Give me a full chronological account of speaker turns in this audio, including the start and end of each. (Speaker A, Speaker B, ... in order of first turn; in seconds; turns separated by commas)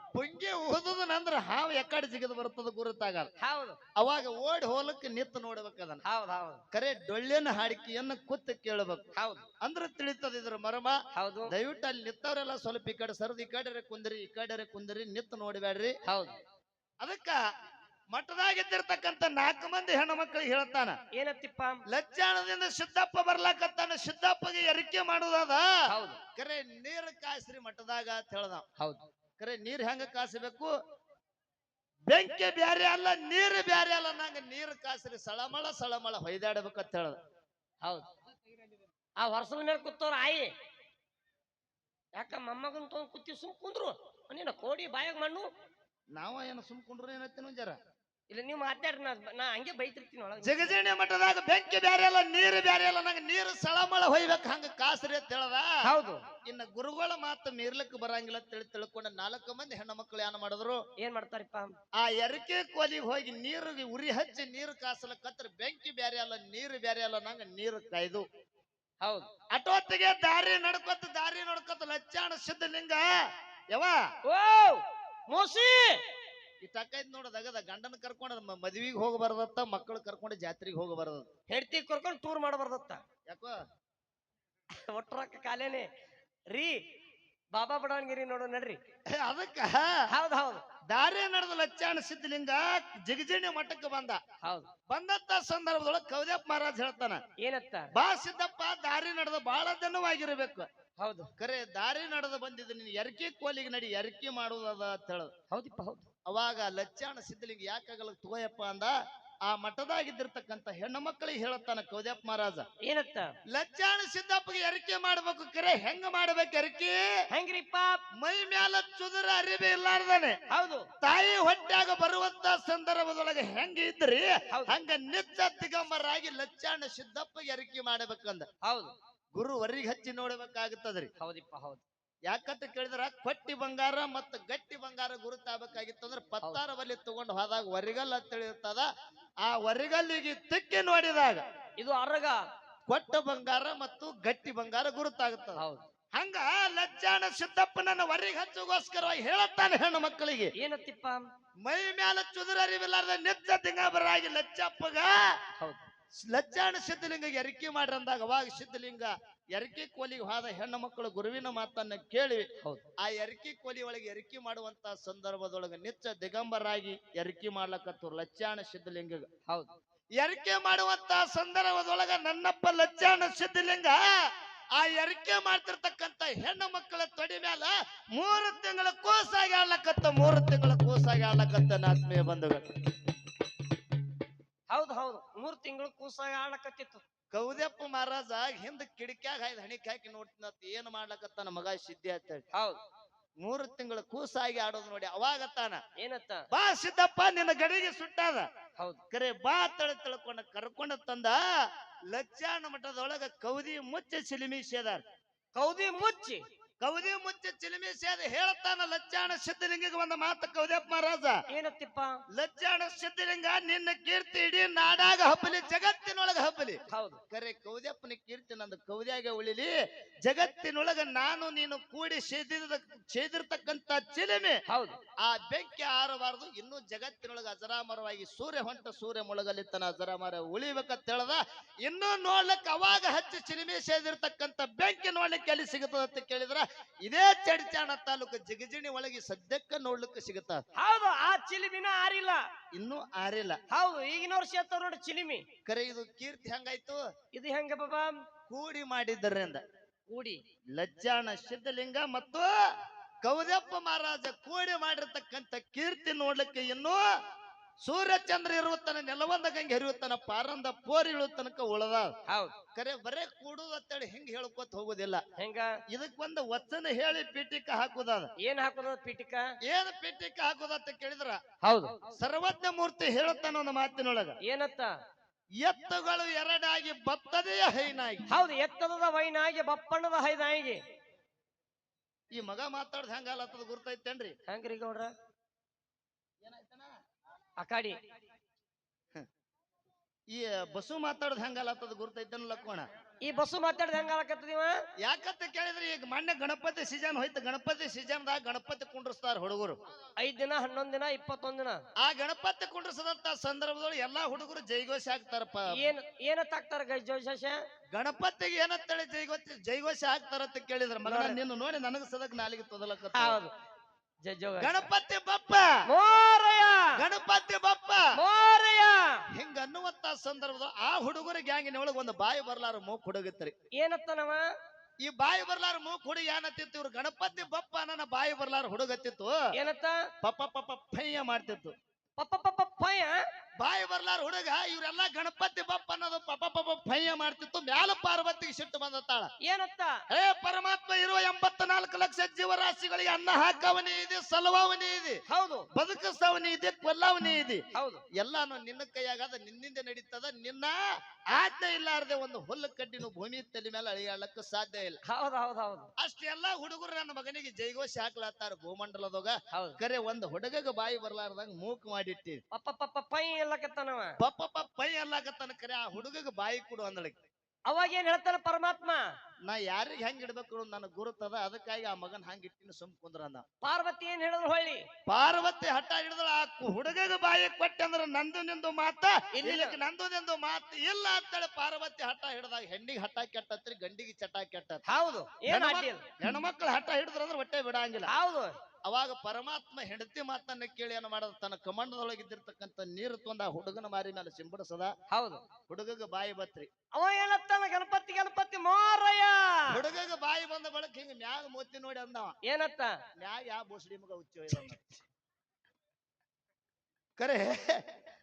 Speaker A: 0.1-3.3, Speaker B: 3.4-3.8, Speaker A: 4.0-6.0, Speaker B: 6.0-6.6, Speaker A: 6.7-9.0, Speaker B: 9.2-9.4, Speaker A: 9.6-16.0, Speaker B: 11.1-11.5, Speaker B: 16.1-16.4, Speaker A: 17.0-17.4, Speaker A: 18.1-20.9, Speaker B: 21.1-21.8, Speaker A: 21.9-25.8, Speaker B: 25.9-26.2, Speaker A: 26.3-28.6, Speaker B: 28.8-29.0, Speaker A: 29.4-30.7, Speaker A: 32.1-37.2, Speaker B: 39.2-40.5, Speaker B: 42.2-45.5, Speaker A: 46.1-47.8, Speaker B: 48.3-50.8, Speaker A: 50.4-55.8, Speaker B: 55.8-56.2, Speaker A: 56.5-60.8, Speaker B: 61.0-61.7, Speaker A: 62.0-68.2, Speaker B: 69.0-69.3, Speaker A: 69.5-73.1, Speaker A: 73.7-74.0, Speaker B: 74.2-76.0, Speaker A: 76.6-81.3, Speaker B: 81.5-83.0, Speaker A: 83.3-83.5, Speaker B: 84.8-85.9, Speaker B: 86.5-86.8, Speaker B: 87.5-88.8, Speaker A: 89.1-90.0, Speaker B: 90.1-90.6, Speaker A: 90.9-94.2, Speaker B: 94.4-94.7, Speaker A: 94.9-97.2, Speaker B: 97.4-97.9, Speaker A: 97.9-100.7, Speaker B: 101.0-101.3, Speaker A: 101.4-105.3, Speaker B: 105.5-106.1, Speaker A: 106.3-108.9, Speaker A: 109.5-112.6, Speaker B: 112.8-113.3, Speaker A: 113.5-117.0, Speaker B: 117.3-118.0, Speaker A: 118.2-120.4, Speaker B: 120.5-120.9, Speaker A: 121.0-128.5, Speaker B: 124.5-124.8, Speaker B: 128.6-128.9, Speaker A: 129.3-131.1, Speaker B: 131.2-131.8, Speaker A: 132.3-138.9, Speaker A: 139.4-141.4, Speaker B: 141.8-142.4, Speaker A: 142.9-145.6, Speaker B: 145.6-145.8, Speaker A: 146.1-150.5, Speaker B: 150.6-151.2, Speaker A: 151.6-155.3, Speaker A: 156.1-162.5, Speaker A: 163.0-169.3, Speaker B: 169.5-169.7, Speaker A: 170.2-174.2, Speaker A: 174.7-182.7, Speaker B: 184.7-187.0, Speaker A: 187.3-192.4, Speaker B: 192.5-192.8, Speaker A: 193.4-195.8, Speaker B: 196.0-196.4, Speaker A: 196.5-198.5, Speaker A: 199.1-201.4, Speaker A: 202.1-205.0, Speaker B: 205.5-206.4, Speaker A: 206.8-211.4, Speaker B: 211.5-212.1, Speaker A: 212.3-219.7, Speaker B: 216.9-217.2, Speaker A: 220.2-224.6, Speaker B: 224.7-225.0, Speaker A: 225.2-240.6, Speaker B: 240.8-242.4, Speaker A: 242.7-243.6, Speaker B: 243.7-245.4, Speaker A: 245.7-247.0, Speaker B: 247.3-248.2, Speaker A: 248.5-249.6, Speaker B: 250.1-250.4, Speaker A: 250.7-252.5, Speaker A: 253.2-257.1, Speaker A: 257.8-262.1, Speaker B: 262.3-262.5, Speaker A: 262.7-265.2, Speaker B: 265.4-265.7, Speaker A: 265.9-268.3, Speaker B: 268.4-269.4, Speaker A: 269.6-271.4, Speaker B: 271.6-271.9, Speaker A: 272.1-274.4, Speaker B: 274.4-274.9, Speaker A: 275.6-278.2, Speaker B: 278.3-280.8, Speaker A: 282.3-284.4, Speaker B: 284.5-285.1, Speaker A: 286.4-286.9, Speaker B: 287.6-288.0, Speaker A: 290.3-292.9, Speaker B: 293.2-294.8, Speaker A: 295.0-299.8, Speaker B: 300.2-301.8, Speaker A: 302.0-305.9, Speaker B: 305.7-307.6, Speaker A: 307.9-313.4, Speaker B: 311.0-311.4, Speaker B: 313.1-313.5, Speaker B: 314.2-314.9, Speaker A: 314.6-315.7, Speaker B: 315.9-317.0, Speaker A: 316.9-318.1, Speaker B: 318.1-319.2, Speaker A: 319.4-323.5, Speaker B: 323.7-324.4, Speaker A: 325.0-329.4, Speaker B: 329.5-330.1, Speaker A: 330.2-331.7, Speaker B: 332.2-333.2, Speaker A: 333.6-339.3, Speaker B: 339.4-340.0, Speaker A: 340.1-345.2, Speaker B: 345.3-345.7, Speaker A: 345.7-350.8, Speaker B: 347.7-348.0, Speaker A: 351.3-355.0, Speaker B: 355.0-355.9, Speaker A: 356.0-362.4, Speaker B: 359.5-359.8, Speaker B: 362.5-364.1, Speaker A: 364.2-367.2, Speaker B: 367.7-369.0, Speaker A: 369.4-373.4, Speaker B: 373.6-374.8, Speaker A: 375.1-384.8, Speaker B: 379.3-379.8, Speaker B: 384.9-386.1, Speaker A: 385.5-388.1, Speaker B: 388.1-388.5, Speaker A: 388.8-394.9, Speaker B: 395.1-395.4, Speaker A: 395.7-396.7, Speaker B: 396.9-399.8, Speaker A: 399.7-402.4, Speaker B: 402.4-403.0, Speaker A: 403.2-404.9, Speaker A: 407.2-407.8